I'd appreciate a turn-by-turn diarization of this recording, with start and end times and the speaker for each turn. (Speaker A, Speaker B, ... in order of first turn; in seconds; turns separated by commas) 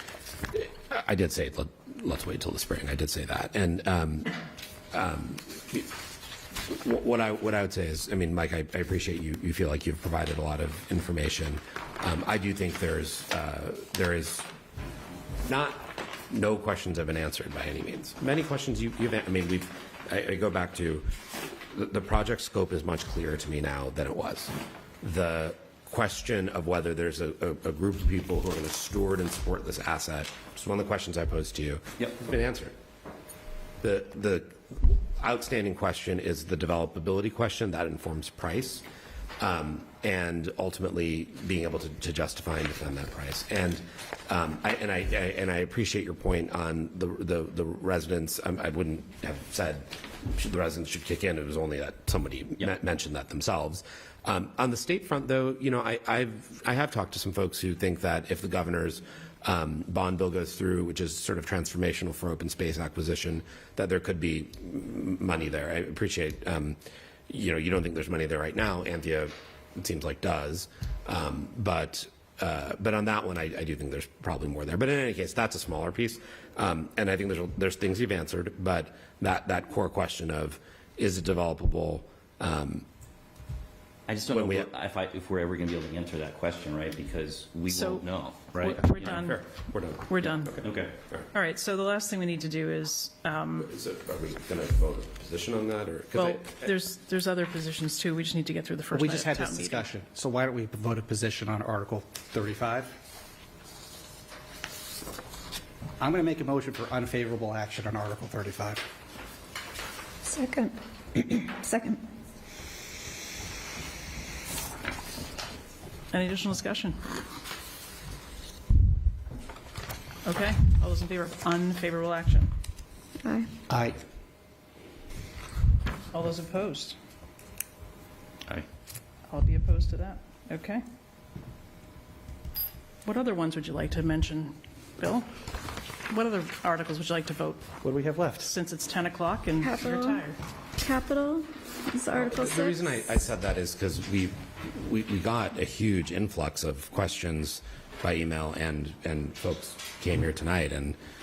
Speaker A: 0.5-4.3, Speaker A: 4.9-5.9, Speaker A: 6.7-14.5, Speaker A: 15.4-21.1, Speaker A: 21.7-32.7, Speaker A: 33.8-38.8, Speaker A: 39.4-82.8, Speaker B: 84.1-89.3, Speaker A: 84.2-84.7, Speaker C: 87.7-89.5, Speaker A: 89.1-91.2, Speaker C: 90.0-90.6, Speaker B: 90.6-91.0, Speaker C: 91.3-93.7, Speaker A: 93.7-96.6, Speaker C: 96.1-99.9, Speaker D: 98.9-102.9, Speaker D: 106.0-108.8, Speaker E: 110.2-112.0, Speaker C: 116.1-117.1, Speaker C: 120.2-122.5, Speaker E: 123.2-123.5, Speaker D: 123.7-124.0, Speaker C: 126.1-127.0, Speaker C: 129.3-130.8, Speaker C: 133.0-135.3, Speaker C: 136.1-137.7, Speaker D: 137.8-138.5, Speaker C: 138.4-140.4, Speaker E: 139.6-140.2, Speaker E: 140.8-143.2, Speaker A: 142.1-151.0